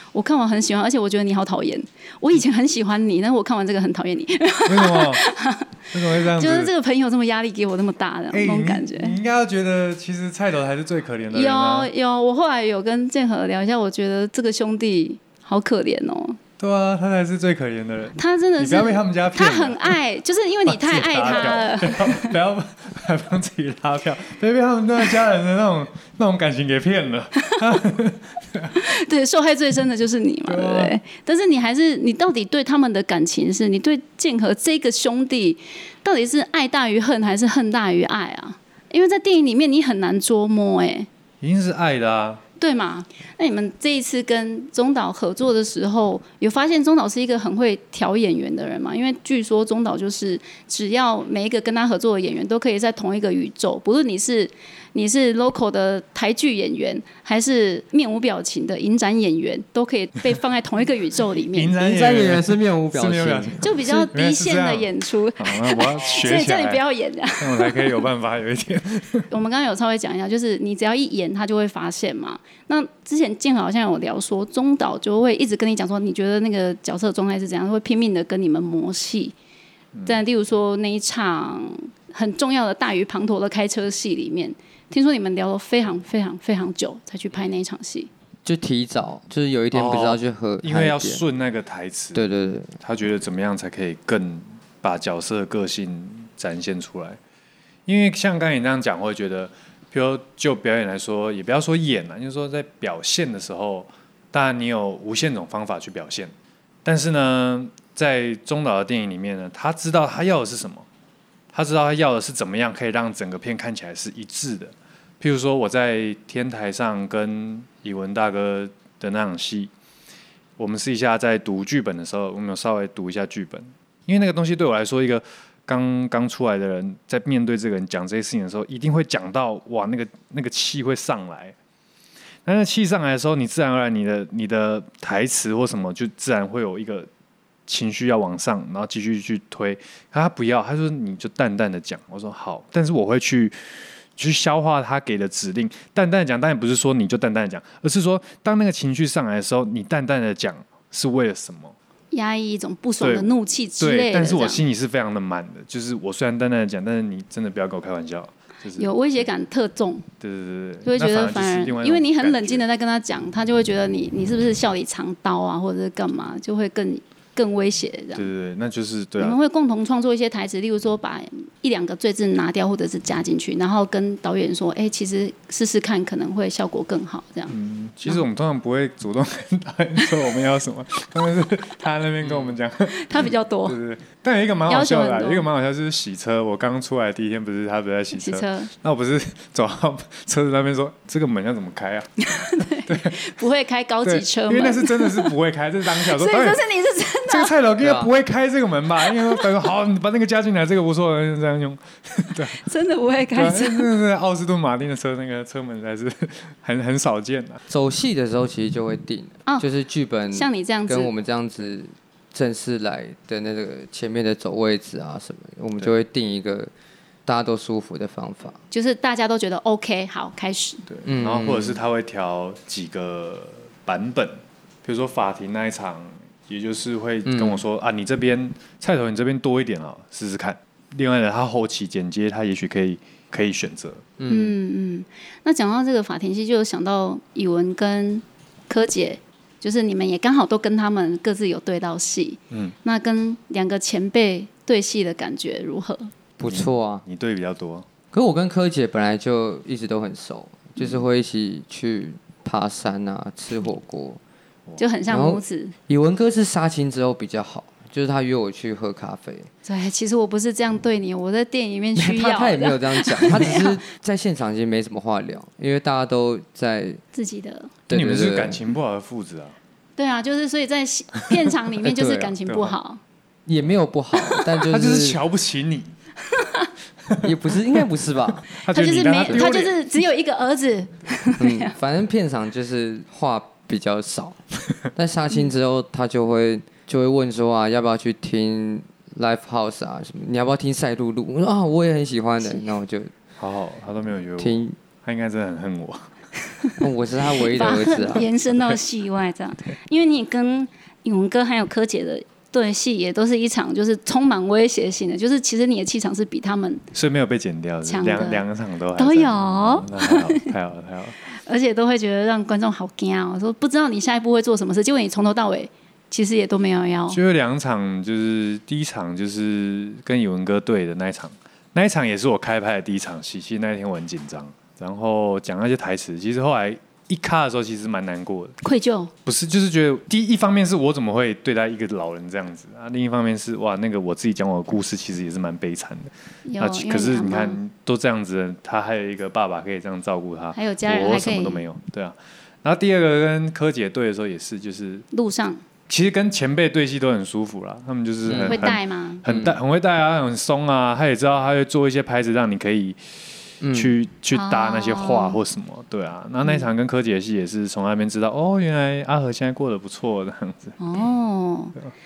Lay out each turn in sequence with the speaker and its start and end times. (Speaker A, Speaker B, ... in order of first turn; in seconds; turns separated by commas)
Speaker A: 0.1-5.7, Speaker B: 4.7-5.2, Speaker B: 5.9-6.7, Speaker A: 6.3-9.2, Speaker B: 8.3-11.9, Speaker A: 11.3-16.4, Speaker B: 16.6-20.0, Speaker A: 18.2-22.3, Speaker B: 20.7-28.7, Speaker A: 28.8-41.1, Speaker B: 30.5-31.0, Speaker B: 41.4-42.4, Speaker A: 42.6-61.8, Speaker B: 61.5-66.8, Speaker C: 61.8-63.6, Speaker A: 63.6-68.0, Speaker B: 67.4-69.2, Speaker A: 69.3-79.3, Speaker B: 79.9-80.2, Speaker A: 80.0-88.1, Speaker C: 88.5-91.2, Speaker B: 89.7-92.2, Speaker C: 92.2-92.8, Speaker B: 92.8-97.2, Speaker B: 97.9-106.3, Speaker B: 106.8-110.9, Speaker B: 111.5-119.7, Speaker B: 120.6-131.6, Speaker B: 132.4-137.1, Speaker B: 137.7-151.8, Speaker A: 152.1-154.6, Speaker B: 153.0-159.2, Speaker A: 158.8-160.1, Speaker B: 160.2-162.7, Speaker A: 160.8-168.3, Speaker B: 168.2-169.4, Speaker A: 169.2-177.5, Speaker B: 177.5-192.1, Speaker A: 182.9-183.8, Speaker A: 184.7-185.5, Speaker A: 188.1-188.7, Speaker A: 192.2-195.3, Speaker B: 192.9-193.3, Speaker B: 194.0-196.6, Speaker A: 195.8-197.5, Speaker B: 197.3-202.6, Speaker C: 197.8-198.1, Speaker A: 199.0-199.5, Speaker A: 202.5-203.9, Speaker B: 203.3-207.6, Speaker C: 207.7-216.7, Speaker A: 210.3-211.1, Speaker C: 217.3-218.6, Speaker A: 218.7-220.8, Speaker B: 220.9-234.1, Speaker C: 221.1-221.8, Speaker C: 227.3-227.7, Speaker C: 234.2-234.6, Speaker A: 234.3-246.1, Speaker C: 246.4-247.1, Speaker B: 246.4-247.9, Speaker C: 248.1-254.2, Speaker B: 250.8-251.0, Speaker A: 254.8-255.8, Speaker C: 255.1-259.5, Speaker A: 259.6-263.8, Speaker C: 262.0-267.0, Speaker A: 267.1-267.7, Speaker C: 267.9-268.7, Speaker B: 267.9-269.6, Speaker A: 270.0-273.0, Speaker C: 271.8-272.4, Speaker B: 272.5-272.8, Speaker C: 273.5-275.2, Speaker A: 274.2-274.5, Speaker B: 274.6-275.9, Speaker A: 276.3-276.7, Speaker C: 277.2-278.5, Speaker B: 278.6-279.8, Speaker A: 278.6-281.7, Speaker C: 281.4-284.4, Speaker C: 284.9-293.1, Speaker B: 293.4-296.1, Speaker C: 294.4-294.8, Speaker C: 296.8-298.3, Speaker A: 297.4-306.8, Speaker B: 306.9-311.2, Speaker A: 307.9-308.4, Speaker A: 309.0-310.5, Speaker A: 311.3-317.2, Speaker B: 317.1-328.6, Speaker A: 328.6-329.1, Speaker B: 329.2-345.1, Speaker A: 336.5-337.6, Speaker A: 340.5-341.7, Speaker A: 345.1-345.6, Speaker B: 345.9-353.0, Speaker C: 348.3-348.6, Speaker A: 348.3-349.2, Speaker C: 349.3-349.6, Speaker C: 353.6-353.9, Speaker B: 353.7-360.8, Speaker A: 354.3-355.4, Speaker A: 356.4-356.7, Speaker A: 360.8-361.8